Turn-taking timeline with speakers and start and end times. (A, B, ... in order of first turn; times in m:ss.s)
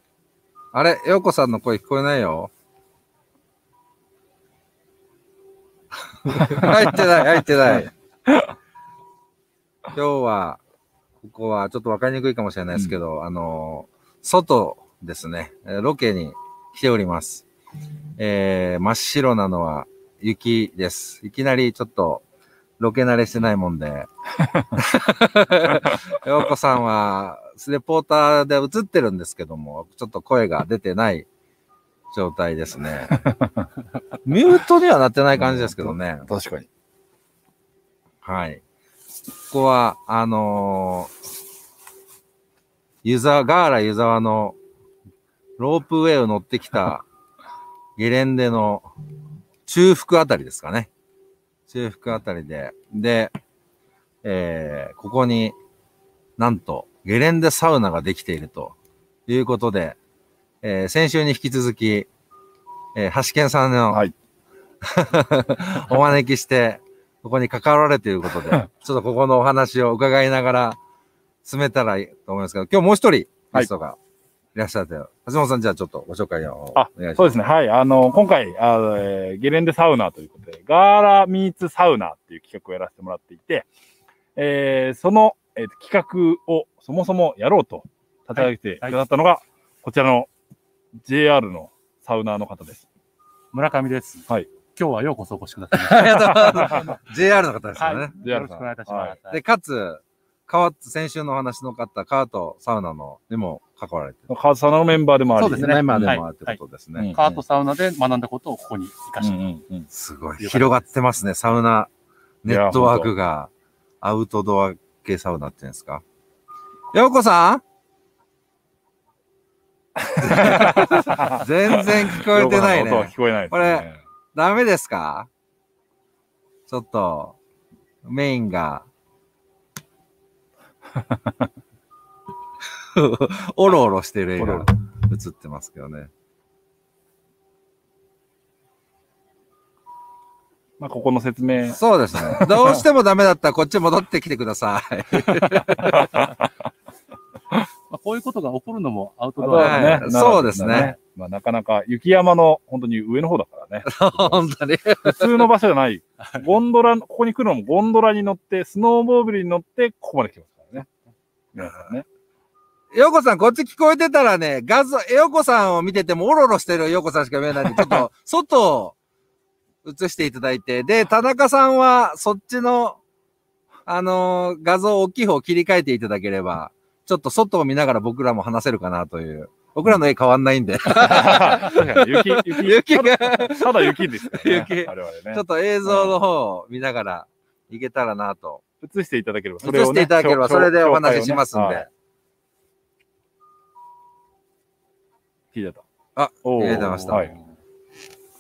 0:00.7-0:02.5 A
0:06.3-0:07.9 A
0:06.3-0:07.0 B
0:08.3-0:08.5 B
0:09.9-0:10.6 A
0:11.2-0:17.5 A
0:18.2-0:22.2 A
0:22.8-0:24.1 A
0:24.8-0:31.3 A
0:32.1-0:33.2 A
0:33.2-0:33.7 B
0:34.2-0:36.3 A
0:35.4-0:36.7 B
0:38.2-0:38.6 A
0:39.5-0:41.1 A
0:43.0-0:44.6 A
0:45.6-0:47.0 A
0:48.0-0:48.9 A
0:49.7-0:50.9 A
0:51.7-0:53.3 A
0:54.2-0:55.6 A
0:56.4-0:58.8 A
0:59.3-1:00.0 A
1:00.6-1:02.1 A
1:03.0-1:04.1 A
1:04.8-1:10.8 A
1:11.4-1:14.0 A
1:14.6-1:17.4 A
1:16.8-1:23.7 B
1:24.4-1:30.3 B
1:28.3-1:29.0 C
1:31.0-1:32.8 B
1:33.5-1:37.0 C
1:35.8-1:38.6 A
1:36.1-1:36.8 B
1:37.8-1:39.4 C
1:38.2-1:39.2 B
1:39.2-1:44.3 A
1:44.3-1:46.2 B
1:45.4-1:46.6 C
1:45.4-1:47.2 A
1:47.0-1:47.3 B
1:47.1-1:49.4 C
1:49.2-1:49.9 B
1:49.9-1:51.9 A
1:50.4-1:50.9 C
1:52.4-1:56.0 A
1:52.5-1:53.1 B
1:56.9-1:57.6 A
2:00.0-2:04.0 B
2:00.2-2:05.3 A
2:06.7-2:07.4 A
2:08.0-2:08.9 A
2:11.0-2:11.3 B
2:13.0-2:16.1 A
2:14.4-2:14.7 B
2:20.8-2:22.6 B
2:21.7-2:26.1 A
2:25.8-2:26.3 B
2:27.9-2:31.0 C
2:29.4-2:34.4 B
2:29.6-2:30.9 A
2:33.8-2:35.4 A
2:35.0-2:40.9 B
2:41.5-2:42.1 B
2:42.9-2:49.0 A
2:49.8-2:53.0 A
2:53.9-3:08.6 A
3:01.0-3:06.2 B
3:08.8-3:11.8 B
3:09.6-3:11.9 A
3:15.5-3:15.8 B
3:16.2-3:17.3 A
3:16.4-3:17.3 B